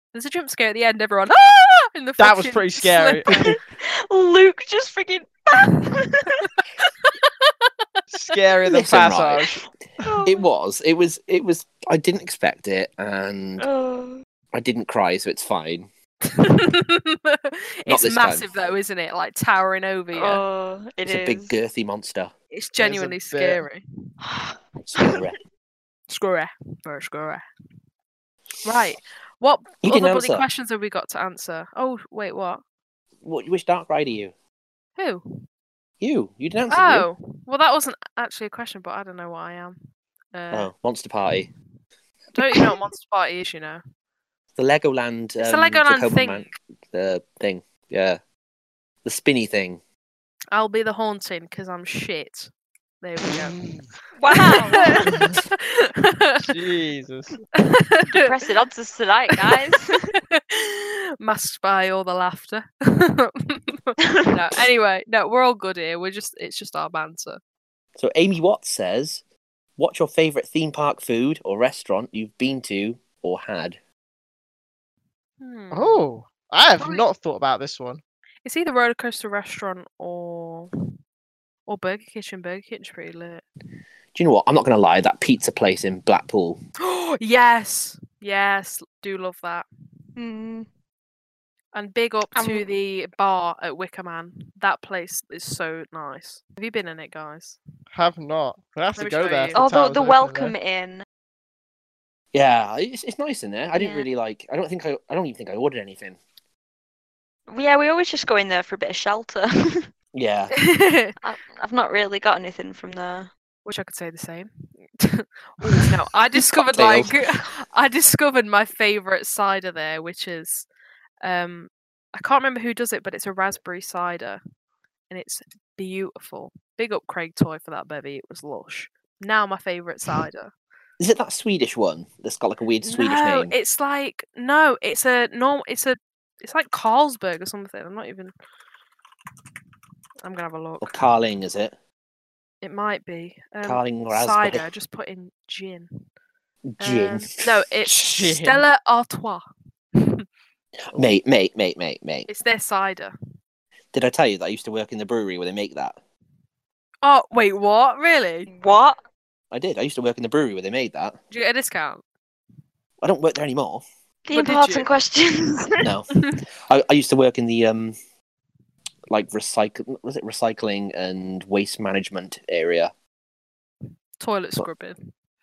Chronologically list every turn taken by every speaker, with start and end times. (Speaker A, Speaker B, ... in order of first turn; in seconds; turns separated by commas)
Speaker A: 0.1-3.4, Speaker B: 2.2-3.3, Speaker C: 3.7-6.5, Speaker A: 7.0-8.0, Speaker B: 8.1-10.1, Speaker D: 8.7-9.6, Speaker C: 10.0-10.5, Speaker D: 10.2-13.7, Speaker C: 13.6-14.2, Speaker D: 14.5-15.9, Speaker A: 16.4-20.4, Speaker D: 17.9-18.5, Speaker C: 20.1-21.6, Speaker D: 21.0-22.3, Speaker A: 22.5-23.8, Speaker B: 22.8-23.6, Speaker C: 24.2-25.2, Speaker D: 24.8-25.4, Speaker A: 26.1-27.4, Speaker A: 28.6-32.6, Speaker D: 29.8-30.4, Speaker D: 33.2-34.3, Speaker A: 35.0-35.2, Speaker D: 36.0-37.1, Speaker A: 36.7-39.8, Speaker A: 40.3-40.7, Speaker D: 40.5-41.5, Speaker A: 42.3-43.8, Speaker D: 44.5-48.2, Speaker A: 45.4-46.5, Speaker D: 49.0-49.8, Speaker A: 50.5-53.6, Speaker C: 54.2-55.1, Speaker A: 54.3-56.5, Speaker B: 56.5-57.4, Speaker A: 57.5-58.3, Speaker C: 58.1-60.1, Speaker A: 60.3-67.4, Speaker D: 68.0-69.2, Speaker D: 69.8-73.8, Speaker A: 75.4-76.0, Speaker B: 75.7-78.0, Speaker A: 76.8-77.0, Speaker A: 78.4-80.7, Speaker A: 81.7-83.4, Speaker D: 84.1-86.6, Speaker A: 86.8-89.6, Speaker C: 90.2-90.7, Speaker A: 91.7-97.6, Speaker C: 92.3-92.7, Speaker B: 97.9-100.5, Speaker A: 98.9-99.6, Speaker C: 99.5-101.0, Speaker D: 102.3-106.2, Speaker C: 103.7-104.1, Speaker C: 107.5-109.9, Speaker D: 110.1-110.5, Speaker A: 110.5-111.1, Speaker C: 111.2-113.3, Speaker A: 113.6-114.5, Speaker A: 115.0-120.7, Speaker D: 116.3-117.1, Speaker A: 121.2-124.4, Speaker A: 125.1-130.5, Speaker D: 131.0-133.5, Speaker A: 132.8-138.3, Speaker A: 140.2-141.0, Speaker D: 140.8-141.7, Speaker A: 142.6-145.9, Speaker D: 143.6-144.7, Speaker D: 146.7-147.3, Speaker A: 146.8-149.4, Speaker B: 147.8-148.6, Speaker A: 150.0-150.2, Speaker D: 150.9-152.3, Speaker A: 152.3-153.1, Speaker D: 153.9-155.9, Speaker A: 157.0-158.5, Speaker C: 158.5-159.0, Speaker D: 159.5-161.2, Speaker A: 161.3-162.0, Speaker D: 163.0-163.8, Speaker C: 164.3-165.8, Speaker A: 164.3-164.9, Speaker D: 165.8-166.2, Speaker D: 166.7-167.9, Speaker D: 169.1-172.9, Speaker A: 174.2-174.9